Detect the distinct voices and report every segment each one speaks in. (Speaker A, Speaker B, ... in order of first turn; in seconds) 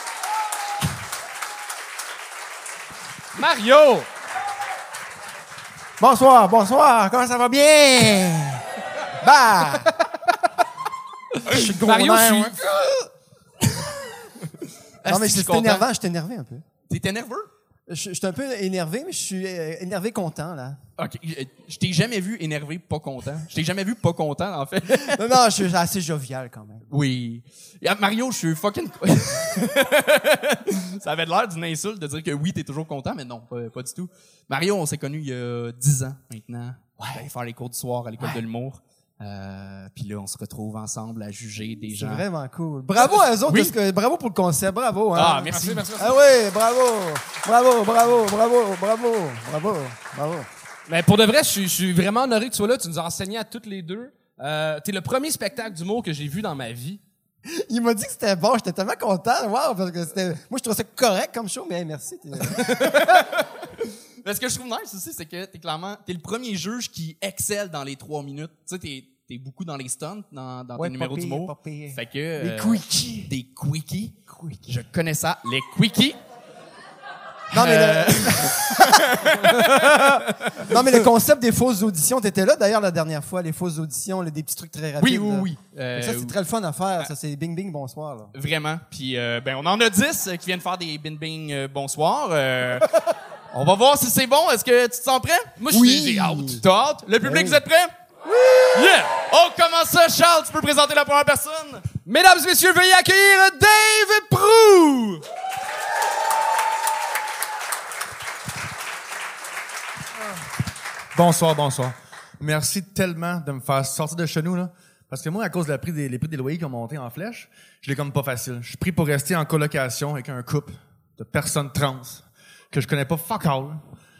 Speaker A: 3.4-4.1, 11.8-12.7, 45.5-46.2, 50.9-57.0, 95.6-96.6, 98.7-99.2, 102.1-105.2
Speaker B: 6.0-9.9, 11.5-12.9, 15.1-16.6, 17.9-20.8, 25.0-26.9, 37.0-37.3, 42.0-50.5, 57.5-63.3, 70.8-73.3, 74.3-74.7, 77.5-88.3, 95.8-96.6, 97.2-97.6, 98.3-98.8
Speaker C: 15.0-15.9, 16.9-17.5, 21.0-25.2, 26.9-42.2, 43.0-43.7, 45.1-45.9, 64.2-76.2, 77.5-81.1, 85.0-86.4, 88.3-93.0, 93.5-97.9, 99.1-101.8
Speaker D: 111.1-123.8